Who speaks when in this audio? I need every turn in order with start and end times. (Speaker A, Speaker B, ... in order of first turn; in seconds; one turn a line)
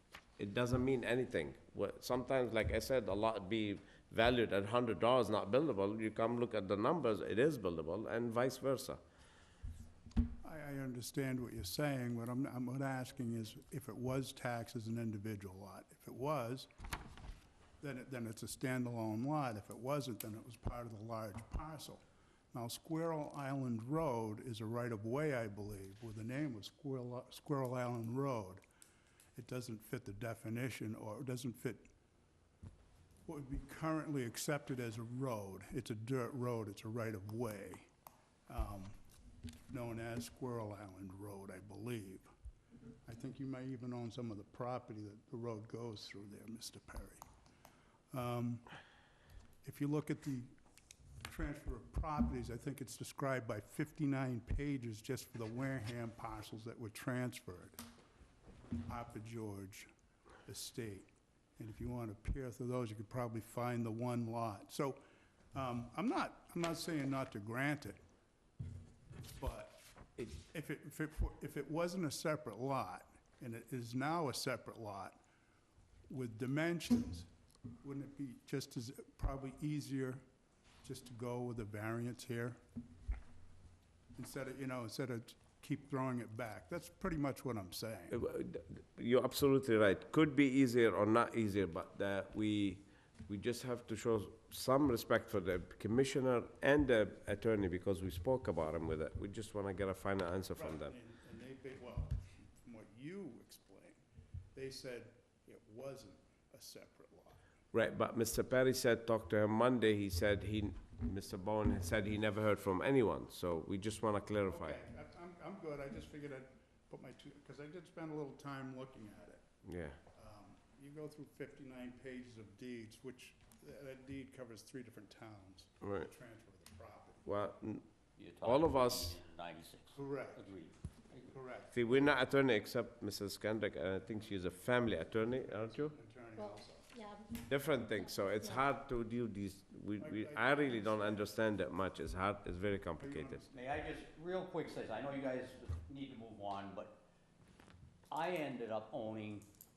Speaker A: 0.4-9.0
Speaker B: 10.4-16.7
Speaker B: 17.8-28.6
Speaker B: 29.4-31.9
Speaker B: 33.2-37.9
Speaker B: 38.5-39.0
Speaker B: 39.7-42.3
Speaker B: 43.0-47.2
Speaker B: 48.1-48.6
Speaker B: 49.6-50.5
Speaker B: 51.3-57.8
Speaker B: 58.9-59.9
Speaker B: 60.5-65.0
Speaker B: 65.5-68.0
Speaker B: 69.3-75.2
Speaker B: 76.1-77.3
Speaker B: 77.8-80.2
Speaker B: 80.8-82.6
Speaker B: 84.2-88.2
Speaker A: 88.1-100.9
Speaker B: 100.5-104.0
Speaker B: 104.5-107.4
Speaker A: 107.7-114.8
Speaker B: 114.5-119.4
Speaker A: 119.6-120.0
Speaker B: 120.1-127.2
Speaker A: 125.8-126.1
Speaker A: 127.2-127.8
Speaker C: 128.2-131.3
Speaker A: 128.4-129.2
Speaker B: 129.9-130.5
Speaker B: 131.3-132.1
Speaker A: 131.7-135.9
Speaker B: 135.4-136.9
Speaker D: 136.4-138.6
Speaker A: 137.4-143.4
Speaker B: 140.0-141.3
Speaker B: 143.0-143.6
Speaker C: 143.5-147.0
Speaker C: 148.1-149.5